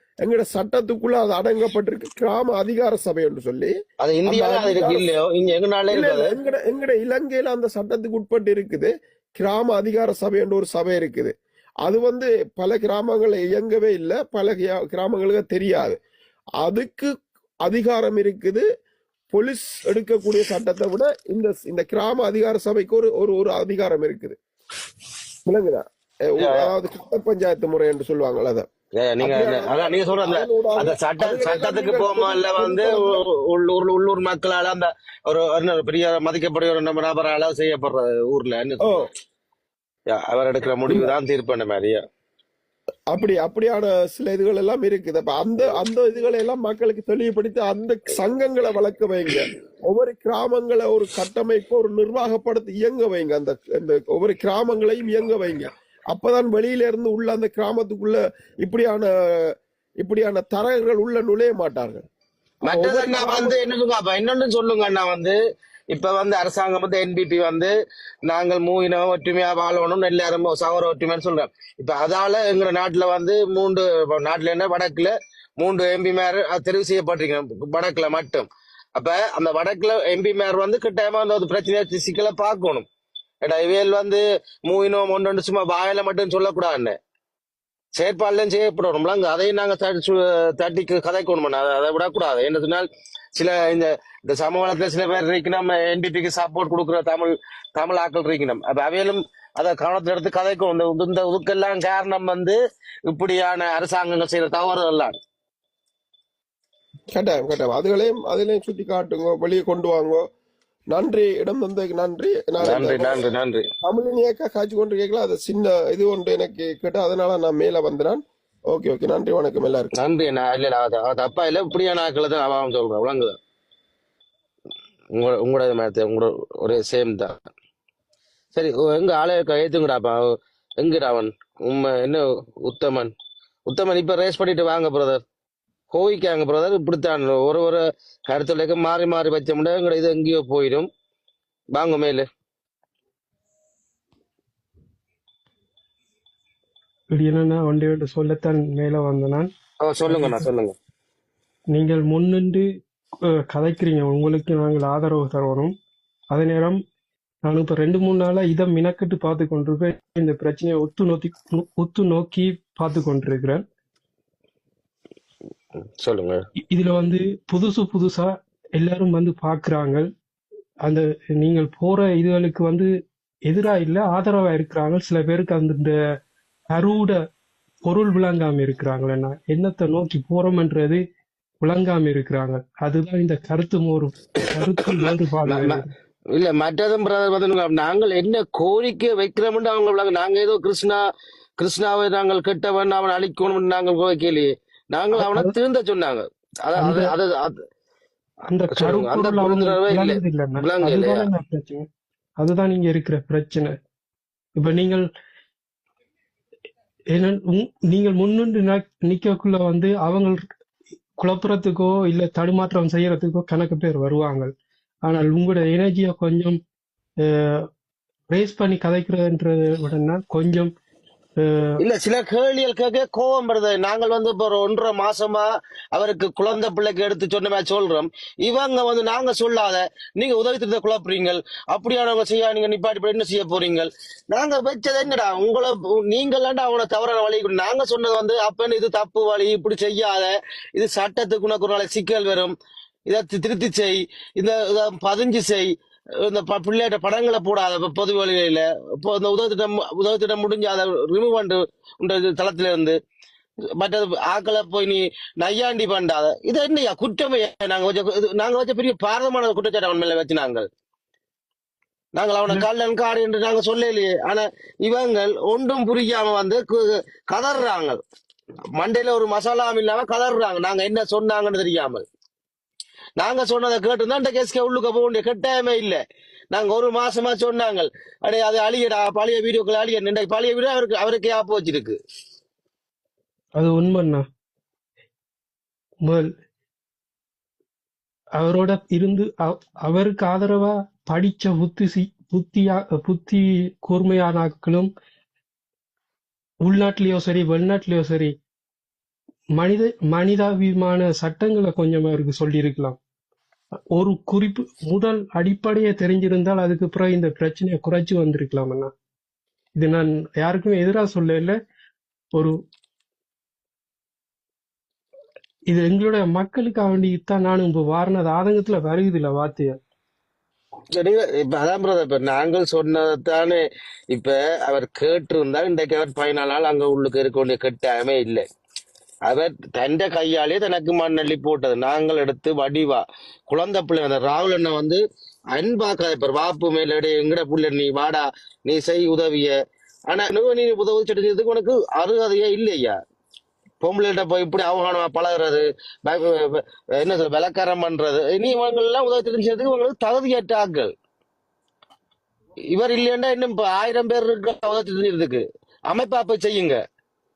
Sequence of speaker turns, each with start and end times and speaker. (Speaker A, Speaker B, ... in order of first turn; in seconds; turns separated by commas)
Speaker A: 0.2-3.8, Speaker B: 4.0-6.3, Speaker A: 4.3-5.0, Speaker A: 5.9-16.0, Speaker A: 16.6-17.1, Speaker A: 17.6-18.6, Speaker A: 19.3-24.4, Speaker A: 25.5-28.7, Speaker B: 26.4-26.7, Speaker B: 29.0-39.1, Speaker A: 29.2-33.2, Speaker B: 40.1-42.0, Speaker A: 43.1-62.0, Speaker B: 62.6-65.4, Speaker A: 62.6-63.5, Speaker B: 65.9-67.7, Speaker B: 68.3-82.8, Speaker B: 83.4-87.0, Speaker B: 88.0-105.2, Speaker A: 107.1-110.2, Speaker A: 110.9-113.2, Speaker B: 112.6-113.7, Speaker A: 113.8-119.9, Speaker B: 120.0-123.4, Speaker B: 125.2-127.4, Speaker B: 128.6-133.1, Speaker B: 133.7-135.2, Speaker B: 135.9-140.9, Speaker B: 141.7-142.3, Speaker C: 147.1-149.5, Speaker B: 149.8-150.8, Speaker C: 150.1-150.4, Speaker C: 151.7-152.7, Speaker C: 153.5-155.7, Speaker C: 156.3-156.8, Speaker C: 157.5-163.6, Speaker B: 166.0-166.4, Speaker C: 166.7-170.1, Speaker C: 170.8-172.9, Speaker C: 173.5-175.9, Speaker C: 176.7-177.2, Speaker C: 177.8-181.0, Speaker C: 181.6-185.9, Speaker B: 185.4-185.8, Speaker B: 186.3-191.0, Speaker B: 191.6-197.6, Speaker C: 195.1-195.5, Speaker C: 196.8-197.1, Speaker C: 198.5-201.9, Speaker B: 198.7-201.3, Speaker C: 202.4-203.7, Speaker C: 204.6-205.1, Speaker C: 207.1-210.4, Speaker C: 211.2-214.5, Speaker C: 215.1-216.6, Speaker C: 217.2-217.6, Speaker C: 218.3-220.7, Speaker C: 221.4-221.7, Speaker B: 221.8-242.5, Speaker B: 243.1-245.7, Speaker B: 246.2-253.0, Speaker B: 253.8-260.7, Speaker B: 262.1-268.0, Speaker B: 268.8-272.0, Speaker B: 273.2-276.0, Speaker B: 276.5-282.0, Speaker C: 283.6-284.2, Speaker C: 286.1-286.3, Speaker C: 288.4-294.9, Speaker C: 296.6-298.3, Speaker C: 299.6-303.0, Speaker C: 303.9-308.9, Speaker C: 309.8-311.6, Speaker C: 315.7-319.8, Speaker B: 321.0-328.4, Speaker B: 329.3-335.0, Speaker B: 335.6-339.5, Speaker B: 340.1-343.0, Speaker B: 343.8-350.9, Speaker B: 352.7-356.8